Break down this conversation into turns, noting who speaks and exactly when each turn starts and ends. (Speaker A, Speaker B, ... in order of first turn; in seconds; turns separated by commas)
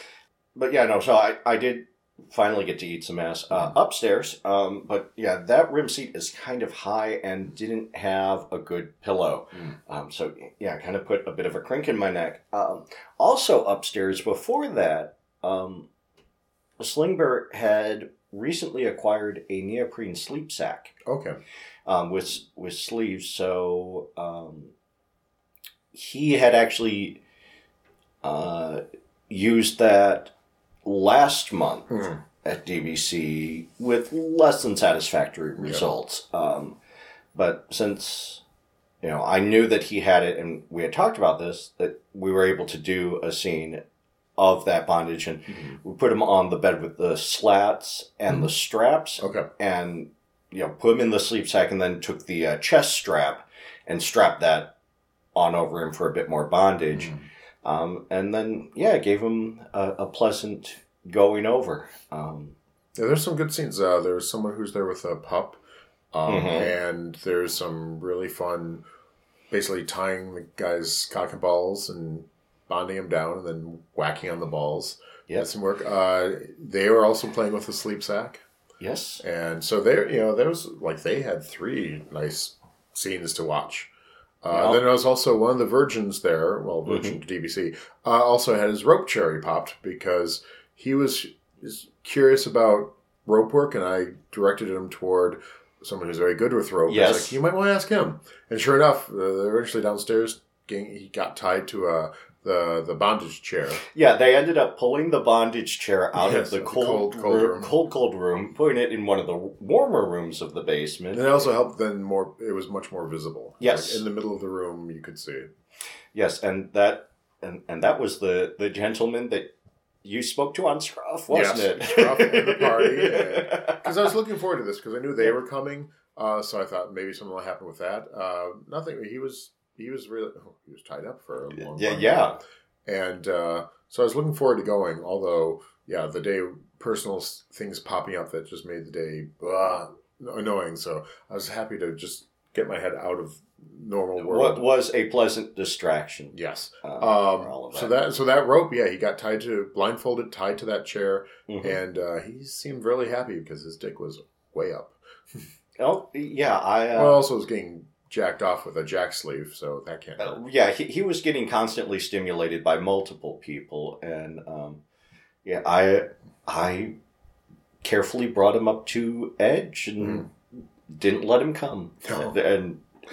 Speaker A: 0.6-15.9, Speaker A: 16.8-20.9, Speaker B: 21.1-21.4, Speaker A: 21.9-24.7, Speaker A: 25.9-27.2, Speaker A: 28.2-30.3, Speaker A: 30.9-36.8, Speaker B: 31.9-32.2, Speaker B: 35.6-35.9, Speaker A: 37.3-38.4, Speaker A: 39.0-43.8, Speaker A: 44.4-54.7, Speaker B: 45.5-45.8, Speaker B: 49.2-49.5, Speaker A: 55.3-62.5, Speaker B: 56.9-57.2, Speaker B: 63.0-65.6, Speaker B: 66.1-68.8, Speaker A: 66.3-66.7, Speaker B: 69.5-78.4, Speaker A: 78.8-79.2, Speaker B: 79.2-83.9, Speaker B: 84.4-103.8, Speaker A: 84.5-84.8, Speaker A: 86.9-87.2, Speaker A: 96.9-97.4, Speaker A: 103.9-111.4, Speaker B: 106.2-107.7, Speaker B: 111.1-115.5, Speaker A: 113.6-114.0, Speaker A: 116.1-119.5, Speaker A: 120.0-123.9, Speaker B: 121.3-132.3, Speaker A: 131.6-132.4, Speaker B: 132.8-144.7, Speaker A: 144.2-147.9, Speaker B: 146.3-154.9, Speaker A: 151.5-151.8, Speaker A: 155.8-157.2, Speaker B: 156.9-160.4, Speaker A: 160.2-164.8, Speaker A: 165.4-166.9, Speaker A: 167.8-170.3, Speaker B: 170.0-170.2, Speaker A: 170.9-172.8, Speaker B: 172.1-172.3